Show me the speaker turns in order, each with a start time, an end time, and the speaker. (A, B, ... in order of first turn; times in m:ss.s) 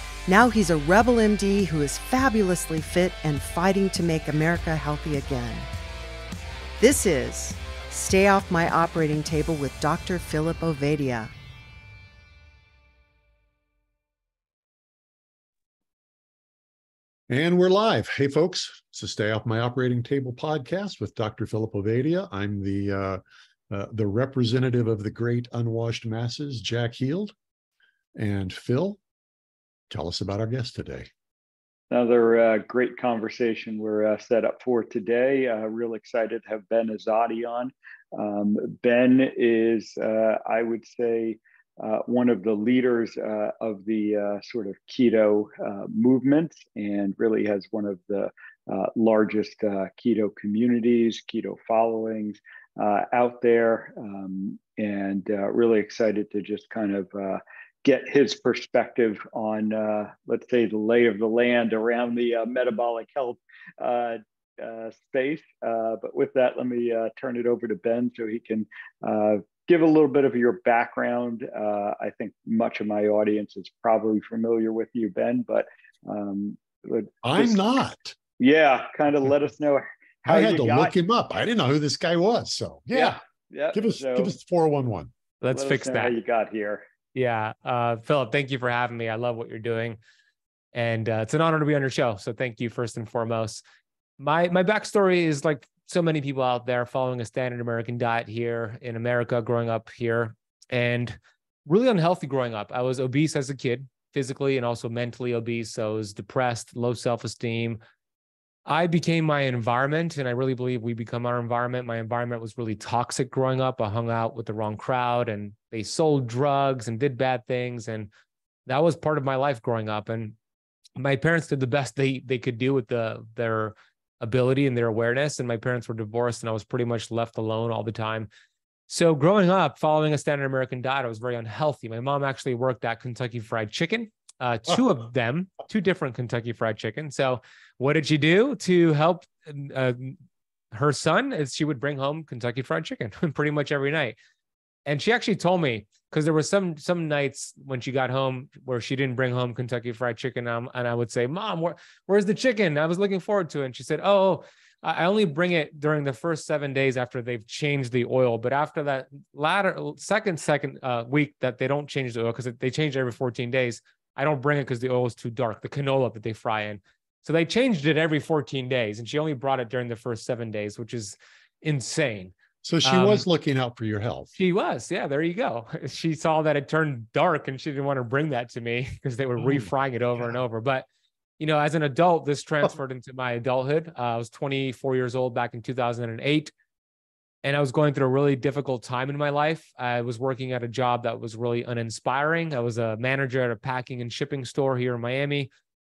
0:00.3-0:05.7 A
0:06.8-0:11.3 A
0:17.3-0:27.3 B
0:28.2-0:29.0 B
0:29.9-0:31.1 B
0:31.9-1:17.6 C
1:17.2-1:18.2 B
1:18.4-1:20.9 C
1:20.3-1:23.2 B
1:22.9-1:24.3 C
1:23.7-1:25.1 B
1:25.4-1:26.2 D
1:25.5-1:26.8 C
1:27.1-1:30.0 D
1:30.7-1:33.6 D
1:34.2-1:47.8 D
1:48.7-1:58.1 D
1:58.7-2:00.4 D
2:01.0-2:08.3 D
2:08.9-2:20.2 D
2:20.7-2:24.2 D
2:24.9-2:53.2 D
2:52.6-2:54.3 B
2:54.3-3:00.9 D
3:01.4-3:06.5 D
3:07.4-3:15.5 D